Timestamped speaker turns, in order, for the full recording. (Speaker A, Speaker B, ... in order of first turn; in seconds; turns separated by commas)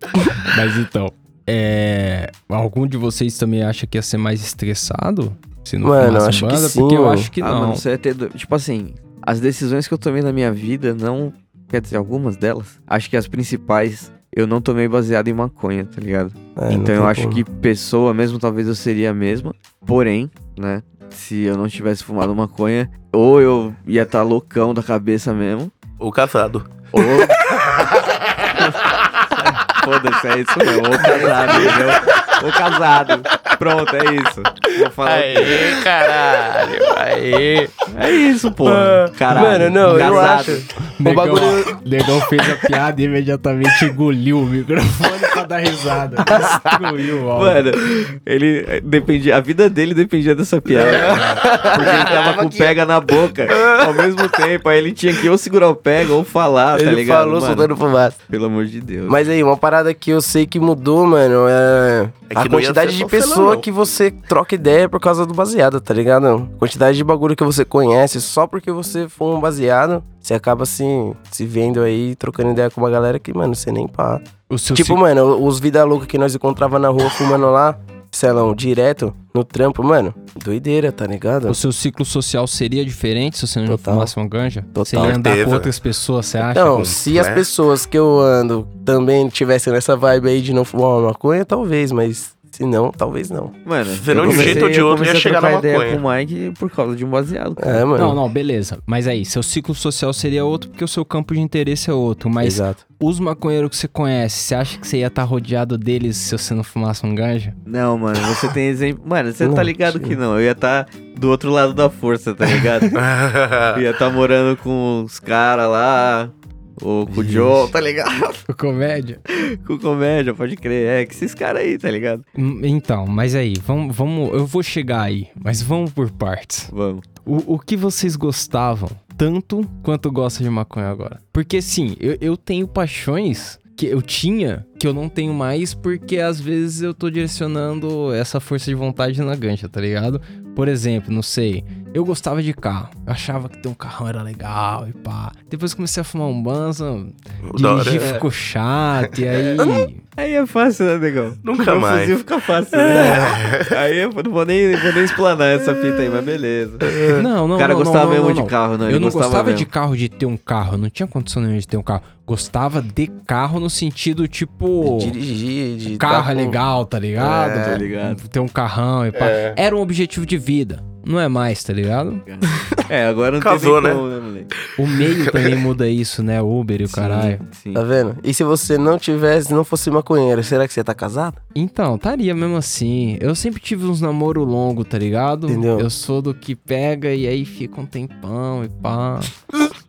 Speaker A: 0.4-7.8, Speaker B: 5.8-7.3, Speaker C: 7.4-25.7, Speaker B: 16.6-17.4, Speaker D: 26.0-29.6, Speaker C: 26.9-27.6, Speaker C: 29.4-35.7, Speaker B: 31.0-31.6, Speaker D: 31.5-32.4, Speaker D: 35.0-37.7, Speaker C: 37.9-40.6, Speaker B: 38.6-41.7, Speaker A: 39.4-47.7, Speaker B: 46.3-46.6, Speaker C: 47.3-57.7, Speaker D: 50.8-52.8, Speaker B: 50.9-52.0, Speaker B: 53.5-54.2, Speaker B: 56.7-58.2, Speaker C: 58.3-59.2, Speaker B: 59.1-74.2, Speaker D: 62.3-63.7, Speaker A: 74.5-75.0, Speaker B: 74.7-81.6, Speaker A: 81.5-86.9, Speaker B: 83.7-84.1, Speaker B: 84.7-85.2, Speaker D: 85.0-85.7, Speaker B: 86.4-93.5, Speaker D: 86.7-87.5, Speaker C: 93.6-97.8, Speaker D: 93.9-96.0, Speaker B: 94.1-94.7, Speaker B: 97.6-98.2, Speaker A: 98.0-107.5, Speaker B: 102.4-102.8, Speaker C: 107.7-113.0, Speaker B: 109.4-110.2, Speaker D: 112.9-113.8, Speaker C: 113.7-118.4, Speaker A: 117.2-117.7, Speaker A: 118.5-119.2, Speaker C: 119.3-122.2, Speaker A: 122.3-126.7, Speaker C: 126.7-127.0, Speaker A: 127.2-150.0, Speaker D: 147.4-148.1, Speaker C: 148.0-148.2, Speaker C: 150.2-157.0, Speaker D: 151.4-152.2, Speaker D: 152.8-153.7, Speaker B: 156.8-157.2, Speaker A: 157.1-165.2, Speaker C: 157.5-159.7, Speaker B: 164.8-166.6, Speaker A: 165.9-172.7, Speaker C: 167.2-168.2, Speaker B: 167.2-167.8, Speaker D: 169.1-169.6, Speaker C: 172.2-174.5, Speaker D: 173.4-174.0, Speaker A: 174.8-177.4, Speaker D: 175.0-175.6, Speaker C: 176.9-177.8, Speaker B: 177.7-181.4, Speaker A: 181.5-189.4, Speaker B: 185.5-185.9